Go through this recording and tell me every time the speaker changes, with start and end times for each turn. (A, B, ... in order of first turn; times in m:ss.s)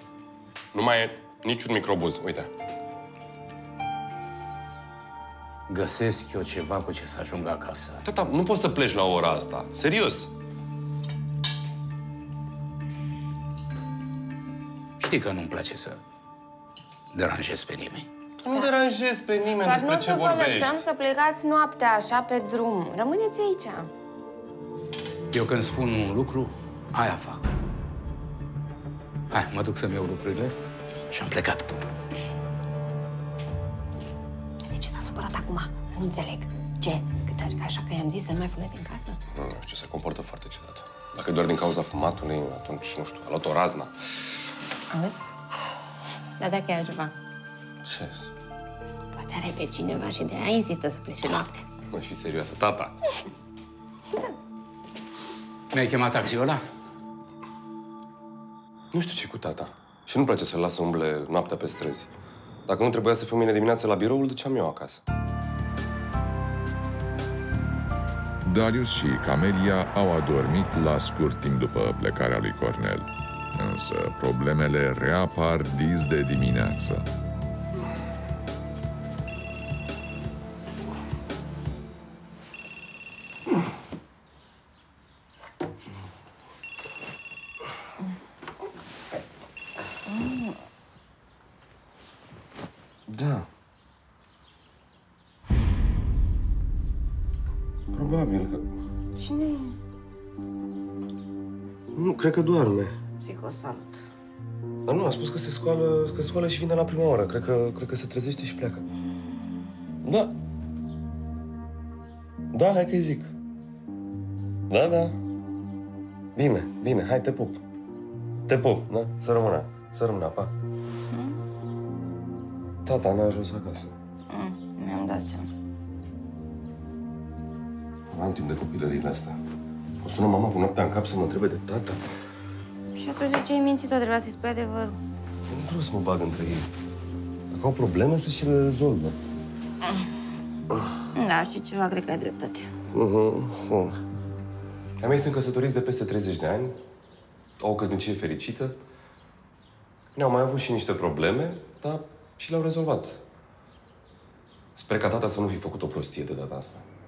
0:00.7-0:02.5 A
0:05.7-0:08.0 B
0:08.0-0:10.3 A
0:15.0-0:16.0 B
0:17.1-0:18.1 B
0:18.4-0:20.8 A
0:19.6-0:23.9 C
0:25.3-0:27.5 B
0:29.3-0:30.5 B
0:31.1-0:31.7 B
0:34.7-0:39.2 C
0:39.4-0:44.4 A
0:44.9-0:45.2 C
0:46.4-0:47.1 C
0:47.8-0:48.2 A
0:49.2-0:51.6 C
0:51.9-0:53.2 A
0:55.7-0:56.6 B
0:58.9-1:02.1 A
1:02.7-1:05.0 A
1:08.4-1:17.1 D
1:30.1-1:30.6 C
1:33.1-1:33.5 A
1:37.9-1:38.7 A
1:39.2-1:39.8 C
1:41.9-1:42.9 A
1:43.2-1:44.1 C
1:44.9-1:48.8 A
1:50.0-1:50.4 A
1:52.5-1:53.3 A
1:54.7-1:55.2 A
1:56.4-1:57.6 A
1:58.5-2:00.5 A
2:01.1-2:01.4 C
2:02.8-2:03.9 A
2:04.3-2:05.5 C
2:08.1-2:09.4 A
2:10.0-2:12.0 A
2:13.0-2:15.0 C
2:15.5-2:16.7 A
2:17.5-2:19.2 A
2:21.1-2:22.7 C
2:22.9-2:24.0 A
2:25.0-2:26.8 A
2:27.6-2:28.8 A
2:30.2-2:33.2 A
2:34.8-2:36.8 A